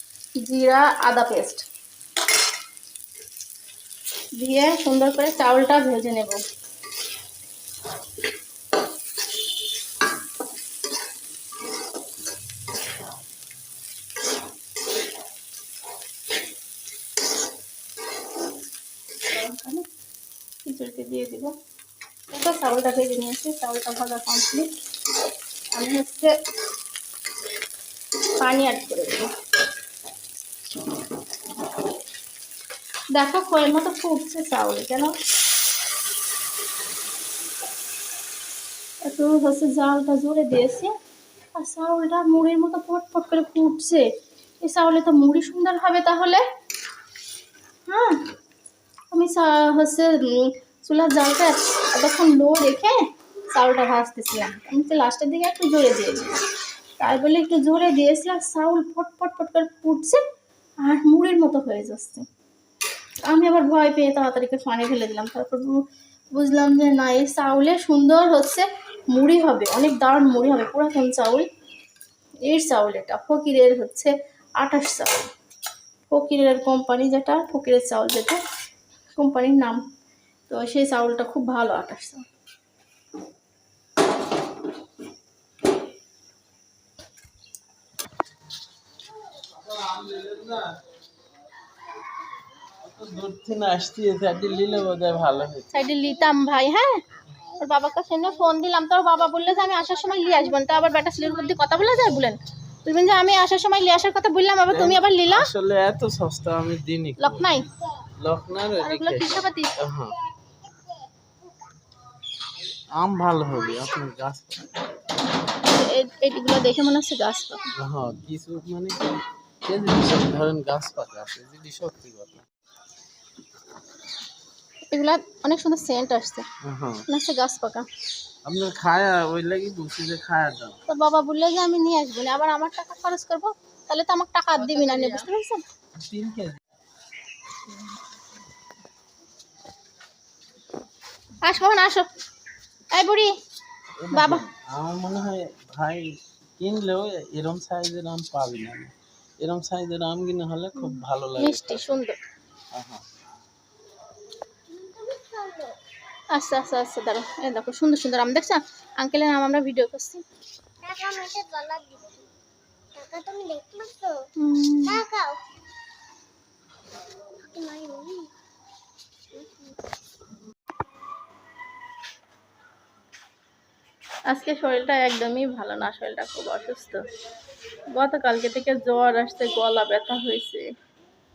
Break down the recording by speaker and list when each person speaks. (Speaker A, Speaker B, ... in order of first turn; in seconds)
Speaker A: 0.4-1.7, 4.4-6.4, 19.3-19.9, 20.6-21.6, 22.3-24.7, 25.7-26.4, 28.4-29.3, 33.1-35.1, 39.0-40.9, 41.5-44.1, 44.6-46.4, 47.9-48.2, 49.1-56.4, 57.0-60.2, 60.8-62.2, 63.3-71.5, 72.5-75.3, 76.1-78.4, 79.1-79.8, 80.5-82.2, 95.7-97.0, 97.6-105.5, 107.2-107.7, 108.8-109.9, 115.6-117.6, 124.9-126.5, 127.1-127.9, 130.9-135.6, 141.4-142.1, 142.9-143.3, 144.1-144.4, 150.8-152.2, 156.3-160.2, 164.4-165.0, 174.3-177.1, 177.9-180.7
Speaker B: 89.5-90.8, 92.8-95.7, 104.7-107.5, 108.2-110.2, 112.9-114.7, 117.7-119.1, 119.7-122.5, 126.6-127.0, 128.4-130.8, 134.7-135.2, 135.9-136.6, 144.0-151.8, 152.7-153.0
Speaker C: 100.4-100.7, 154.7-155.8, 160.8-162.3, 162.9-164.2, 164.9-165.4, 167.4-168.3, 169.3-169.7